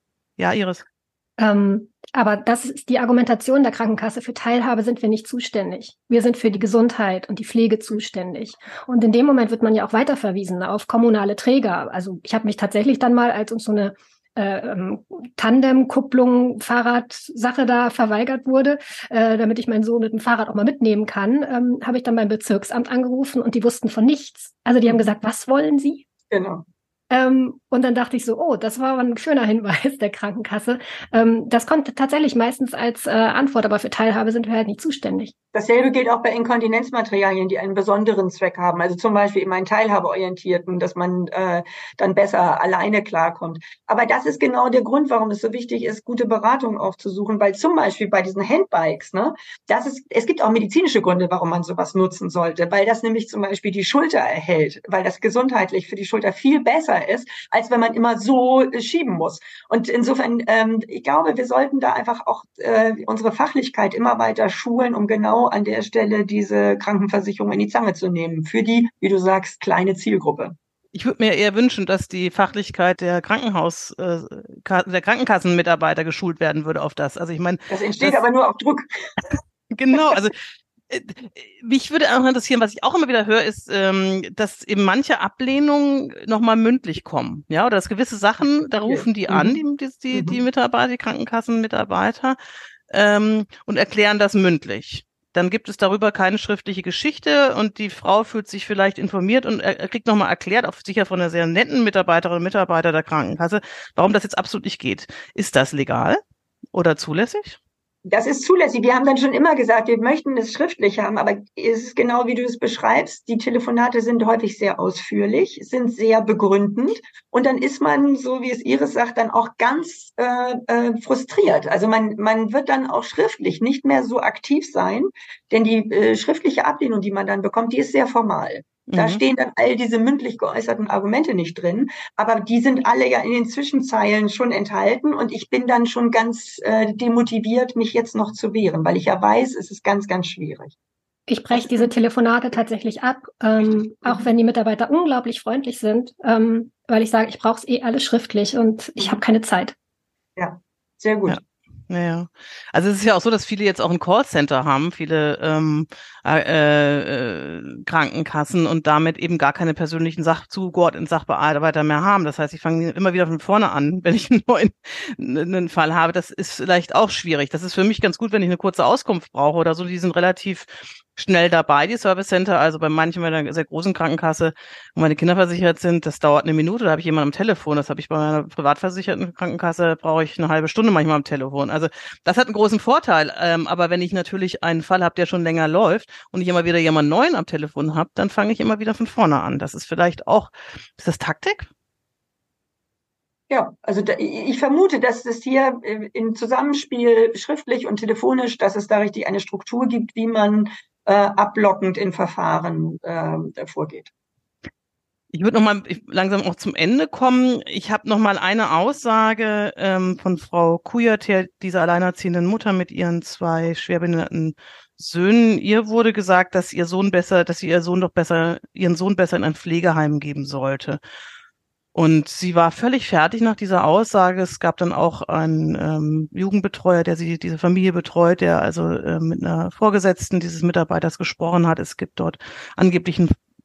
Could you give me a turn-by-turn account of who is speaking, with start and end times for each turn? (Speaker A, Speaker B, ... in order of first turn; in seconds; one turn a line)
Speaker A: 0.4-0.8
Speaker B: 1.4-26.0
Speaker C: 26.3-26.6
Speaker B: 27.1-35.3
Speaker C: 35.5-70.5
Speaker A: 70.9-78.2
Speaker C: 77.7-78.9
Speaker A: 79.7-80.4
Speaker A: 80.9-92.4
Speaker C: 88.8-89.6
Speaker C: 90.1-90.4
Speaker A: 92.9-106.2
Speaker A: 106.7-107.6
Speaker C: 108.0-140.7
Speaker A: 128.9-129.2
Speaker B: 141.3-149.7
Speaker C: 141.5-141.9
Speaker C: 150.4-151.4
Speaker A: 151.3-191.7
Speaker C: 193.5-204.1
Speaker A: 205.3-221.0
Speaker A: 221.9-233.3